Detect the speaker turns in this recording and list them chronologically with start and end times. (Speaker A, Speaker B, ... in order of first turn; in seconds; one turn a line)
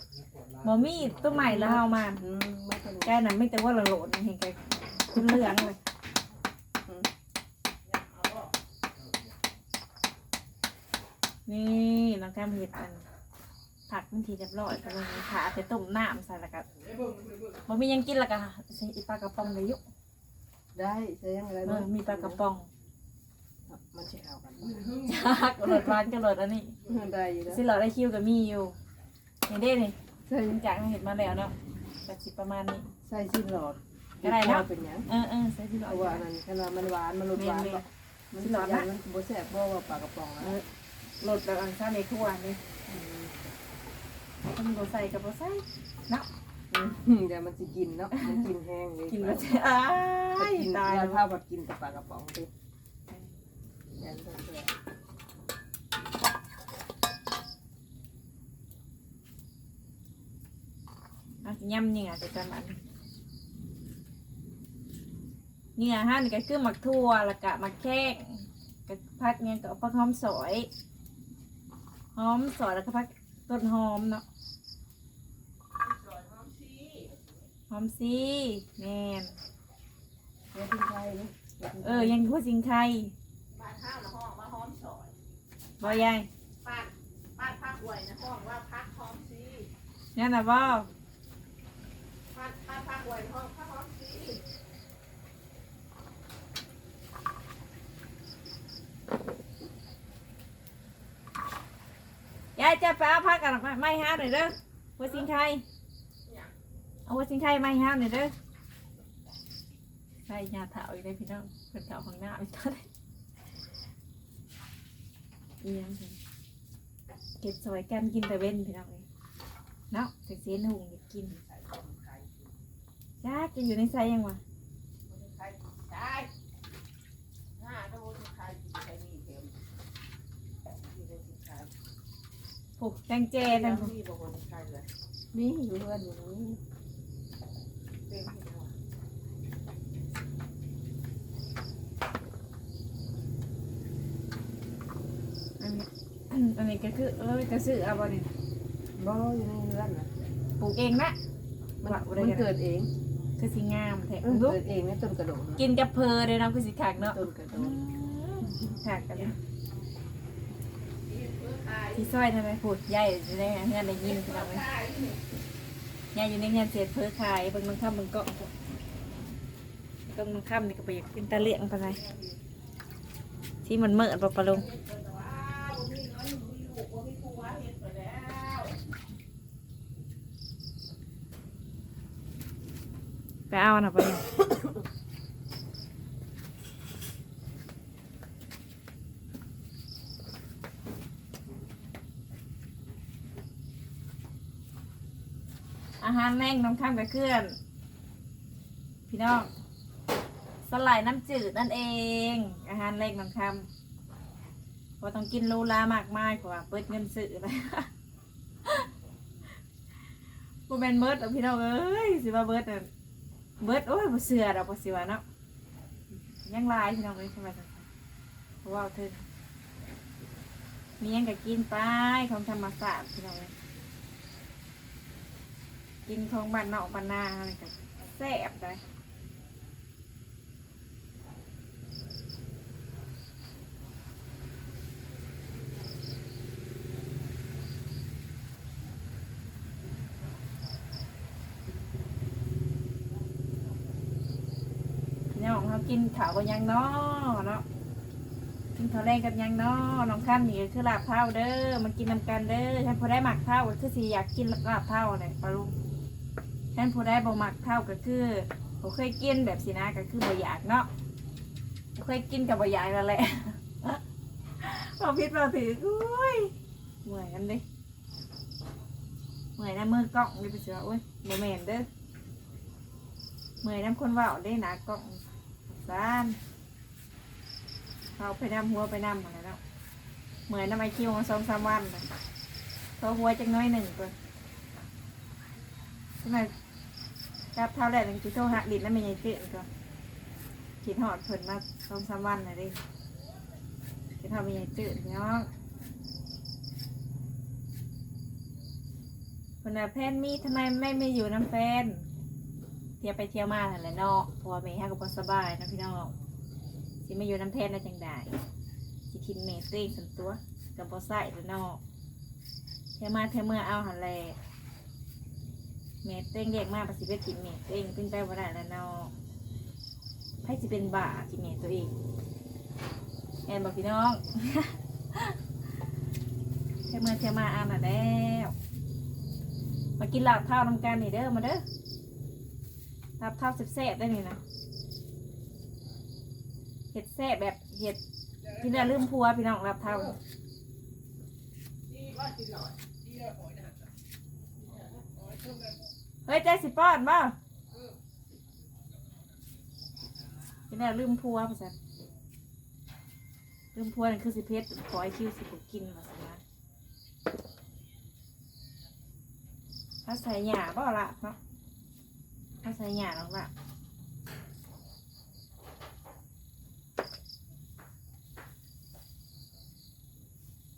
Speaker A: 0.1-1.5
Speaker B: 0.6-2.2
Speaker C: 1.3-3.2
Speaker B: 3.0-5.8
Speaker C: 5.2-5.5
Speaker D: 7.8-8.5
Speaker A: 9.0-9.3
Speaker B: 11.5-13.0
Speaker B: 13.9-16.7
Speaker A: 16.8-17.6
Speaker B: 17.7-19.8
Speaker C: 20.8-22.4
Speaker B: 21.6-22.7
Speaker C: 23.7-25.0
Speaker B: 25.0-26.8
Speaker C: 26.9-27.6
Speaker B: 27.5-28.8
Speaker B: 29.5-31.5
Speaker B: 32.1-32.9
Speaker C: 33.0-35.1
Speaker B: 34.2-36.3
Speaker C: 35.9-40.5
Speaker B: 37.4-38.9
Speaker B: 41.2-42.6
Speaker C: 42.9-43.3
Speaker B: 44.5-46.3
Speaker C: 46.7-49.5
Speaker B: 48.2-48.5
Speaker B: 49.1-51.2
Speaker C: 50.4-52.5
Speaker C: 54.0-54.7
Speaker B: 61.4-62.8
Speaker B: 65.8-70.7
Speaker B: 72.2-74.2
Speaker D: 75.8-77.2
Speaker B: 77.7-79.4
Speaker C: 80.5-82.2
Speaker B: 81.8-83.1
Speaker D: 83.5-85.1
Speaker B: 85.8-86.3
Speaker D: 85.8-86.1
Speaker D: 86.6-89.7
Speaker B: 90.2-90.9
Speaker D: 92.3-94.4
Speaker B: 102.6-105.6
Speaker D: 106.3-106.5
Speaker B: 107.1-108.3
Speaker B: 110.3-112.9
Speaker B: 115.6-116.2
Speaker B: 117.4-119.0
Speaker B: 119.9-121.3
Speaker D: 121.3-122.5
Speaker B: 123.2-124.4
Speaker D: 125.0-126.3
Speaker D: 127.5-129.6
Speaker D: 130.8-131.7
Speaker B: 132.8-133.9
Speaker D: 133.4-134.9
Speaker C: 135.3-136.6
Speaker D: 138.1-138.7
Speaker B: 145.6-148.3
Speaker C: 149.0-150.1
Speaker B: 150.6-151.2
Speaker C: 151.8-152.9
Speaker B: 151.8-152.5
Speaker B: 153.4-154.6
Speaker C: 154.2-155.6
Speaker B: 155.6-159.3
Speaker C: 157.1-157.8
Speaker D: 161.1-162.1
Speaker B: 161.9-164.7
Speaker D: 164.0-165.2
Speaker B: 166.1-168.5
Speaker B: 170.1-172.0
Speaker D: 171.7-172.4
Speaker B: 173.7-174.7
Speaker D: 174.5-178.8
Speaker B: 183.5-184.2
Speaker B: 196.0-197.6
Speaker B: 199.1-199.5
Speaker B: 200.7-203.7
Speaker B: 205.0-207.9
Speaker B: 210.7-212.9
Speaker B: 213.6-215.2
Speaker B: 216.1-217.9
Speaker B: 218.6-219.2
Speaker B: 221.0-223.5
Speaker B: 226.1-228.8
Speaker B: 245.3-247.6
Speaker B: 248.8-255.7
Speaker B: 256.8-260.9
Speaker B: 261.9-264.0
Speaker B: 264.6-266.5
Speaker B: 267.0-267.6
Speaker B: 269.6-271.9
Speaker B: 273.6-276.4
Speaker B: 278.2-279.6
Speaker B: 280.5-282.1
Speaker B: 283.0-284.1
Speaker B: 286.2-286.5
Speaker B: 287.6-289.7
Speaker B: 290.8-292.8
Speaker B: 294.2-295.5
Speaker B: 299.6-302.1
Speaker B: 303.0-306.1
Speaker B: 307.1-308.4
Speaker B: 309.1-311.8
Speaker B: 313.0-314.4
Speaker B: 316.0-319.1
Speaker B: 320.4-321.9
Speaker B: 323.5-325.4
Speaker B: 326.9-328.5
Speaker B: 330.0-331.6
Speaker B: 333.2-334.4
Speaker B: 336.9-338.0
Speaker B: 338.6-340.1
Speaker D: 341.9-342.8
Speaker A: 343.1-343.8
Speaker D: 344.6-345.2
Speaker B: 346.3-347.4
Speaker B: 350.7-351.7
Speaker B: 353.7-356.4
Speaker B: 360.1-361.4
Speaker B: 362.6-363.5